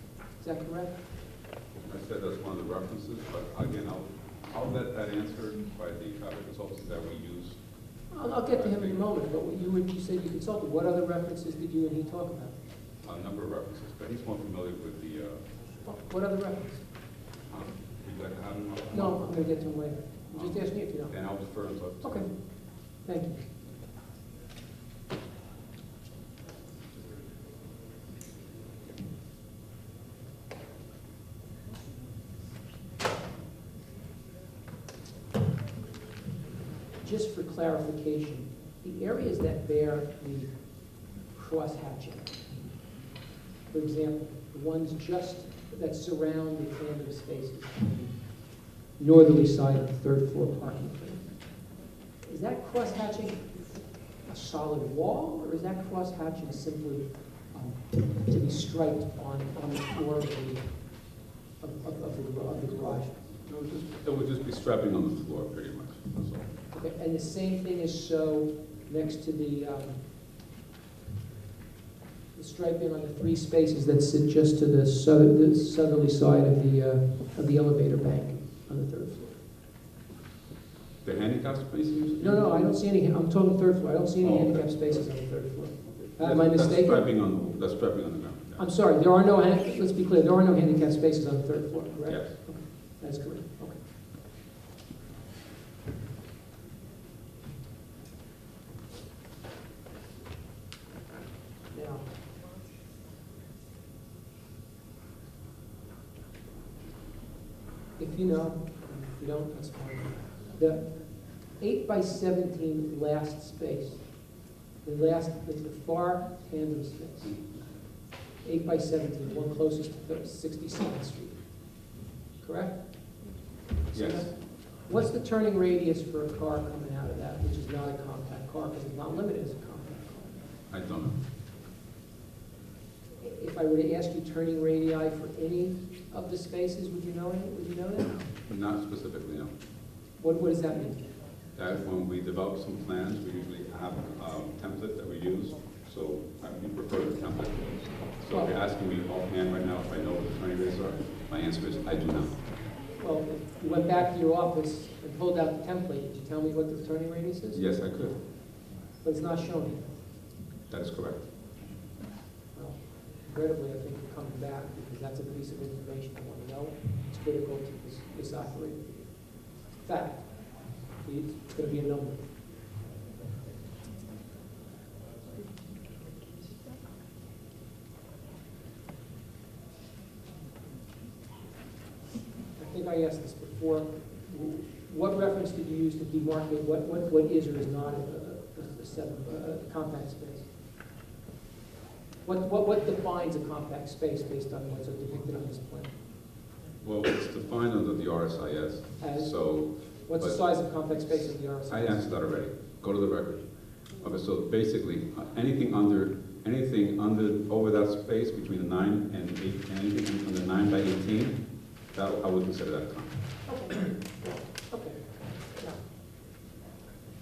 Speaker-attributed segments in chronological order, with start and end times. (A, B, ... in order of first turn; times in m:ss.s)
0:00.4-0:01.0 A
0:01.9-0:07.6 B
0:08.1-0:12.5 A
0:08.5-0:09.0 B
0:13.0-0:15.4 B
0:15.8-0:16.8 A
0:17.5-0:19.3 B
0:18.9-0:21.2 A
0:20.4-0:22.3 B
0:22.0-0:22.3 A
0:23.0-0:23.4 A
0:37.0-0:40.5 A
0:41.3-0:42.3 A
0:43.7-0:48.1 A
0:49.0-0:51.2 A
0:52.3-0:53.5 A
0:54.3-1:00.6 A
1:01.6-1:03.2 A
1:03.5-1:06.5 B
1:06.7-1:10.0 A
1:12.4-1:19.4 A
1:21.0-1:22.5 B
1:22.2-1:27.0 A
1:24.2-1:24.8 B
1:25.9-1:28.6 B
1:28.6-1:33.8 A
1:41.7-1:42.0 A
1:48.0-1:50.8 A
1:51.6-1:54.0 A
1:54.8-1:57.4 A
1:58.4-2:01.4 A
2:02.4-2:02.8 A
2:03.9-2:04.3 A
2:03.9-2:04.3 B
2:04.8-2:10.4 A
2:10.7-2:11.2 B
2:13.2-2:18.3 A
2:18.5-2:19.5 B
2:20.2-2:21.0 A
2:21.6-2:32.4 B
2:33.0-2:37.6 A
2:37.5-2:38.2 B
2:39.0-2:39.8 A
2:40.7-2:41.3 B
2:42.6-2:49.2 A
2:49.8-2:50.3 A
2:51.0-2:52.2 A
3:02.6-3:10.5 A
3:12.3-3:15.9 A
3:16.8-3:20.4 B
3:19.0-3:19.3 A
3:20.1-3:22.1 A
3:21.7-3:31.4 B
3:31.9-3:33.1 B
3:33.5-3:35.0 A